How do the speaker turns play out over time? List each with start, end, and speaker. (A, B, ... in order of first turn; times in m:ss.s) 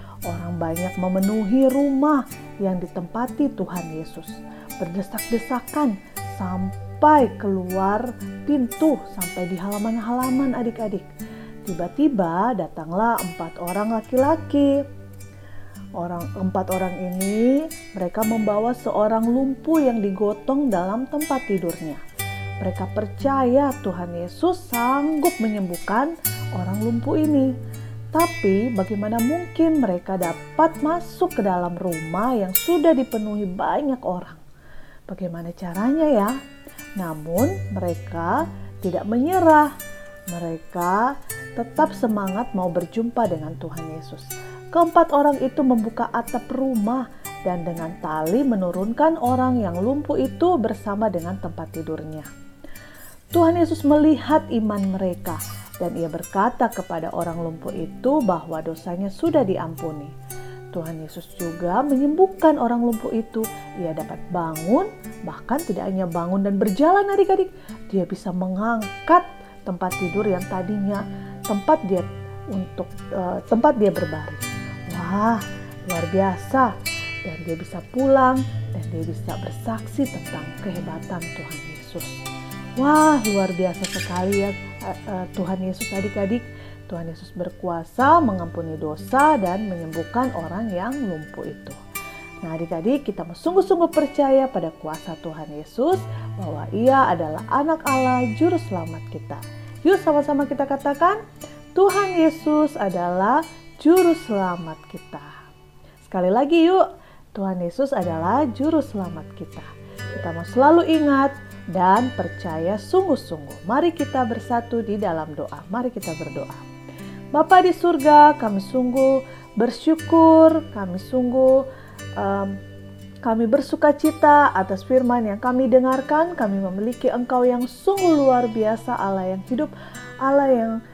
0:00.3-0:11.1 A
0:11.6-0:14.8 A
0:16.0-0:22.0 A
0:22.6-0:27.5 A
0:28.1-0:34.4 A
0:35.1-0:36.4 A
0:37.0-0:39.7 A
0:40.3-0:52.3 A
0:53.3-1:00.1 A
1:00.7-1:16.7 A
1:17.2-1:22.2 A
1:22.8-1:31.8 A
1:32.4-1:41.2 A
1:41.7-1:45.3 A
1:46.0-1:56.6 A
1:57.3-2:01.6 A
2:02.2-2:02.6 A
2:03.2-2:09.7 A
2:10.2-2:10.8 A